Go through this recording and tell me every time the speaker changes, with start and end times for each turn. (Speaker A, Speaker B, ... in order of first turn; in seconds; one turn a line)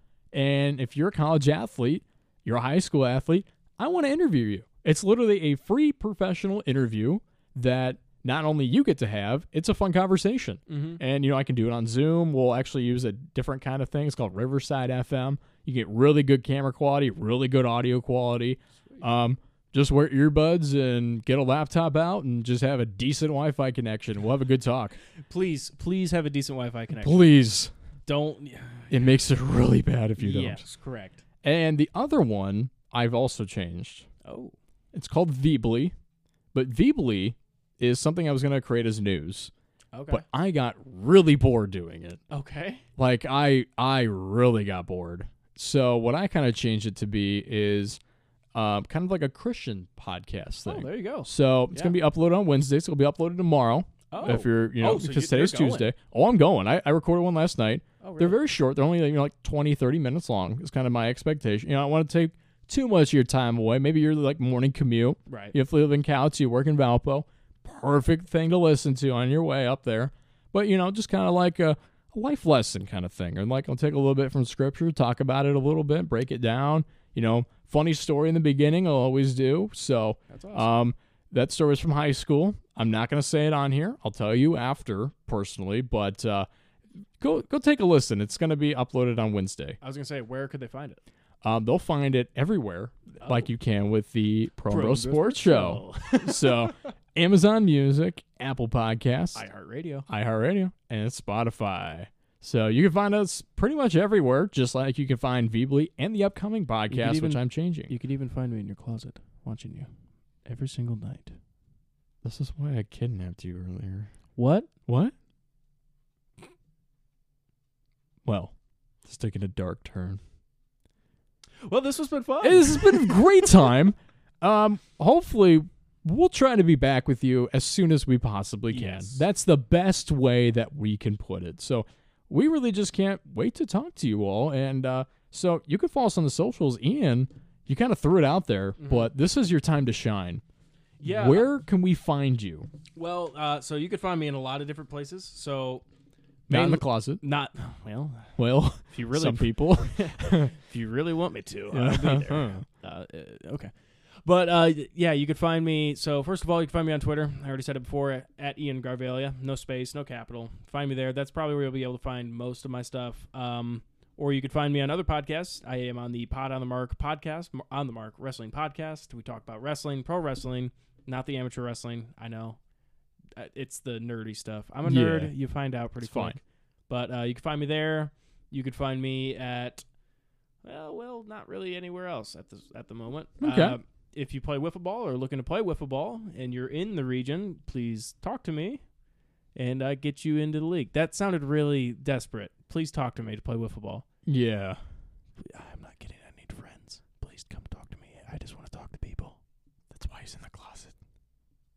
Speaker A: 0.3-25.0
Speaker B: 10.7-11.0
Speaker B: 25.2-27.3
Speaker A: 26.9-27.7
Speaker B: 28.1-29.2
Speaker A: 28.9-30.6
Speaker B: 30.2-31.2
Speaker A: 31.4-34.1
Speaker B: 34.2-34.5
Speaker A: 34.9-35.9
Speaker A: 36.5-39.5
Speaker B: 39.9-40.2
Speaker A: 40.1-42.2
Speaker B: 42.3-42.8
Speaker A: 43.0-48.0
Speaker A: 48.5-86.5
Speaker B: 50.6-52.0
Speaker B: 54.1-55.9
Speaker B: 58.0-58.4
Speaker B: 65.3-65.5
Speaker B: 80.3-80.8
Speaker A: 87.2-89.8
Speaker B: 89.8-91.0
Speaker A: 91.4-99.5
Speaker B: 94.7-96.7
Speaker B: 99.3-100.0
Speaker A: 100.1-107.9
Speaker B: 106.9-109.9
Speaker B: 110.5-111.3
Speaker A: 112.2-114.1
Speaker B: 114.3-114.7
Speaker A: 114.9-115.1
Speaker A: 118.2-118.5
Speaker A: 119.0-120.2
Speaker B: 121.6-123.2
Speaker A: 122.4-140.4
Speaker B: 128.7-129.2
Speaker B: 138.8-139.1
Speaker B: 141.0-141.5
Speaker A: 141.0-142.7
Speaker B: 142.9-145.8
Speaker B: 146.5-148.3
Speaker A: 146.5-147.2
Speaker A: 148.4-150.5
Speaker B: 148.9-153.7
Speaker A: 151.7-152.7
Speaker B: 154.2-172.6
Speaker B: 173.3-179.8
Speaker A: 174.8-175.3
Speaker A: 176.0-176.4
Speaker B: 180.6-188.8
Speaker A: 183.4-183.8
Speaker B: 189.5-194.1
Speaker A: 194.2-194.8
Speaker B: 195.4-199.4
Speaker B: 199.9-200.9